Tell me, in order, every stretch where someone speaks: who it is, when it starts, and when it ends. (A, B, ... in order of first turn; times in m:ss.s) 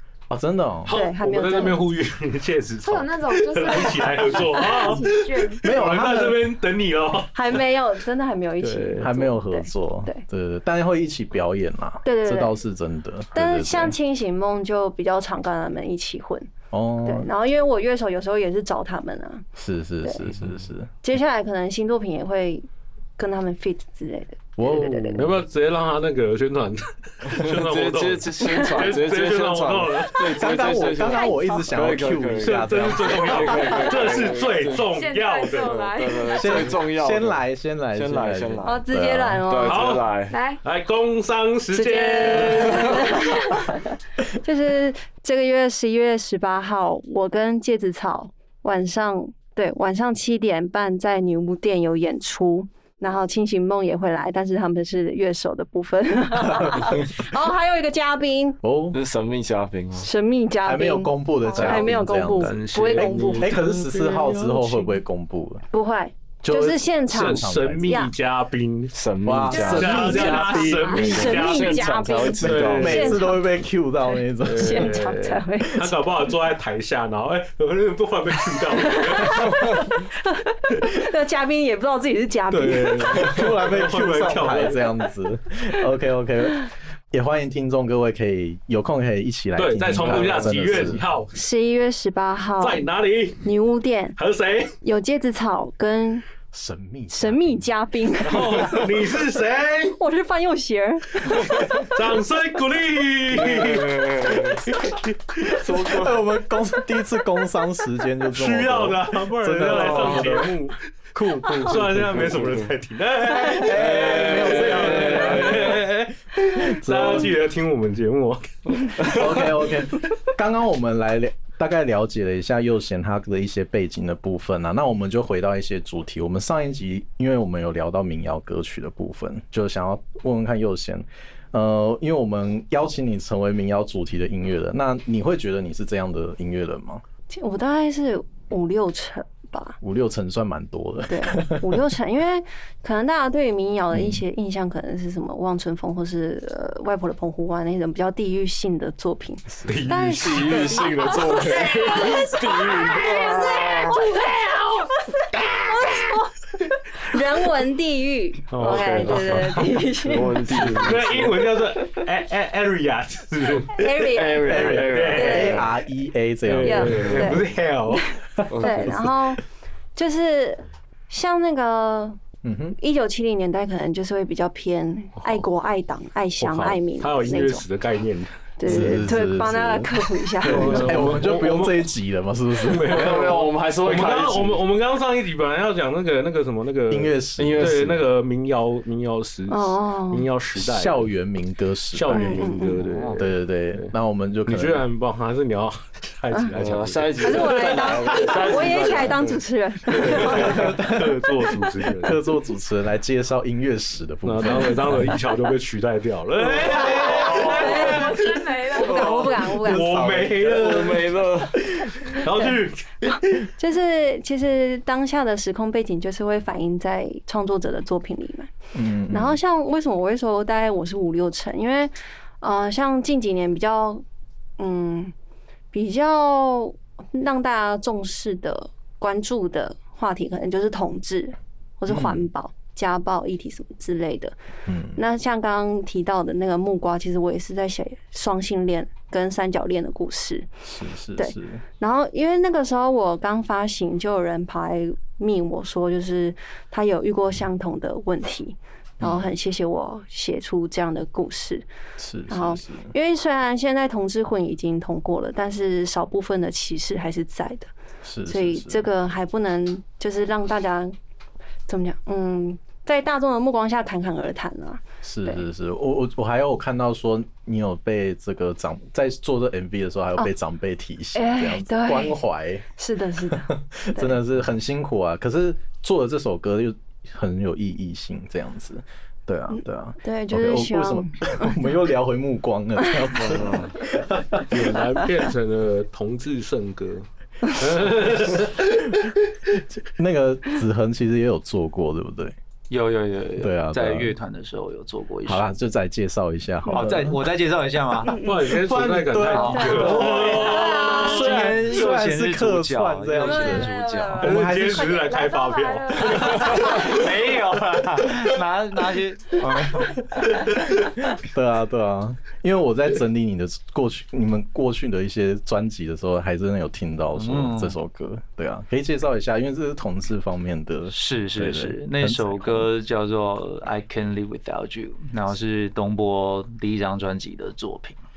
0:00.3-0:00.9 A
0:00.9-0:07.4 B
0:00.9-0:01.8 C
0:02.8-0:05.7 D
0:05.6-0:06.5 A
0:07.3-0:10.2 C
0:08.8-0:14.0 A
0:12.0-0:12.5 C
0:13.3-0:16.5 C
0:16.7-0:17.3 A
0:17.0-0:19.5 C
0:19.6-0:20.9 A
0:21.0-0:25.3 C
0:24.6-0:25.3 A
0:25.2-0:30.4 B
0:27.3-0:34.9 E
0:28.4-0:28.8 C
0:30.4-0:33.8 A
0:31.0-0:31.7 C
0:32.4-0:35.8 B
0:34.8-0:36.7 D
0:35.6-0:37.4 E
0:36.3-0:39.4 A
0:37.9-0:38.8 E
0:38.6-0:40.0 C
0:39.4-0:40.4 E
0:39.6-0:40.1 B
0:40.3-0:40.6 D
0:40.6-0:43.3 B
0:41.7-0:58.6 C
0:56.6-0:57.1 A
0:58.6-0:59.0 A
0:58.9-1:00.1 E
1:00.0-1:03.6 C
1:00.6-1:05.6 A
1:01.5-1:04.7 B
1:05.7-1:08.1 C
1:06.4-1:08.1 A
1:07.1-1:09.0 B
1:08.9-1:10.4 E
1:09.2-1:11.3 A
1:09.5-1:13.2 B
1:09.5-1:13.5 C
1:10.9-1:13.2 E
1:12.5-1:15.0 A
1:14.0-1:16.0 C
1:14.4-1:19.7 B
1:18.8-1:23.3 C
1:22.5-1:24.9 B
1:23.0-1:31.0 A
1:29.6-1:31.3 B
1:31.3-1:32.9 C
1:32.6-1:33.5 B
1:33.4-1:34.2 C
1:34.2-1:34.7 B
1:34.8-1:36.2 C
1:36.5-1:37.6 A
1:37.1-1:38.9 C
1:38.2-1:40.0 B
1:40.0-1:41.8 C
1:41.6-1:44.6 B
1:43.4-1:44.7 E
1:45.5-1:50.5 A
1:45.5-1:46.2 E
1:48.3-1:59.2 B
1:49.7-1:50.4 E
1:51.2-1:52.3 A
1:53.3-1:55.8 A
1:53.8-1:55.8 E
1:56.6-1:57.3 A
1:59.0-1:59.4 E
1:59.0-2:17.0 A
2:17.3-2:19.8 C
2:19.8-2:21.9 A
2:21.1-2:34.6 C
2:23.9-2:24.2 A
2:29.5-2:29.8 A
2:29.7-2:31.4 B
2:30.0-2:34.0 E
2:35.3-2:36.0 B
2:35.6-2:36.3 C
2:36.9-2:41.0 C
2:38.5-2:39.5 B
2:38.6-2:41.5 E
2:40.6-2:43.9 B
2:43.8-2:45.6 C
2:44.0-2:45.7 E
2:44.4-2:45.7 B
2:44.4-2:47.3 A
2:46.4-2:48.1 B
2:46.6-2:49.4 C
2:48.5-2:49.1 E
2:50.0-2:52.2 C
2:52.4-2:52.8 A
2:52.8-2:57.6 C
2:56.4-2:58.3 B
2:58.6-3:01.0 C
2:58.7-3:03.3 A
3:00.4-3:01.9 B
3:00.7-3:01.0 E
3:02.6-3:11.1 B
3:02.9-3:04.6 E
3:06.9-3:08.0 A
3:07.4-3:08.0 E
3:09.5-3:10.3 C
3:10.6-3:12.5 A
3:11.9-3:13.9 B
3:12.1-3:12.8 C
3:12.9-3:13.2 E
3:13.2-3:14.8 A
3:14.5-3:19.1 B
3:16.5-3:19.4 E
3:17.2-3:20.7 C
3:19.9-3:22.2 B
3:20.0-3:20.7 E
3:20.4-3:21.1 A
3:22.0-3:25.1 A
3:24.2-3:28.4 B
3:26.8-3:28.2 C
3:27.0-3:29.2 D
3:27.2-3:27.8 E
3:28.8-3:30.1 C
3:28.8-3:32.2 E
3:29.3-3:31.2 B
3:30.0-3:30.5 A
3:32.0-3:33.2 B
3:33.1-3:38.5 C
3:38.7-3:39.4 A
3:39.1-3:44.0 C
3:44.6-3:45.1 C
3:45.7-3:54.4 C
3:51.9-3:52.3 A
3:54.7-3:55.0 A
3:55.0-4:00.5 C
4:00.6-4:01.6 A
4:01.2-4:11.7 C
4:09.0-4:09.3 A
4:12.0-4:12.9 A
4:12.3-4:17.7 C
4:18.0-4:18.8 A
4:18.3-4:21.0 C
4:21.7-4:25.4 C
4:25.0-4:32.7 A
4:31.2-4:32.2 C
4:32.8-4:34.2 C
4:33.2-4:44.6 A
4:39.5-4:41.7 C
4:43.2-4:43.7 E
4:44.5-4:48.7 B
4:49.0-4:52.4 A
4:52.7-4:55.5 F
4:53.4-4:54.1 A
4:55.3-4:57.2 A
4:56.7-4:58.2 F
4:58.1-5:01.6 B
4:58.5-5:05.0 A
4:59.3-5:04.4 F
4:59.5-5:01.2 C
5:03.2-5:04.3 C
5:04.2-5:07.0 B
5:04.8-5:06.9 D
5:06.5-5:10.5 F
5:09.4-5:22.7 A
5:17.2-5:17.8 F
5:20.9-5:28.0 F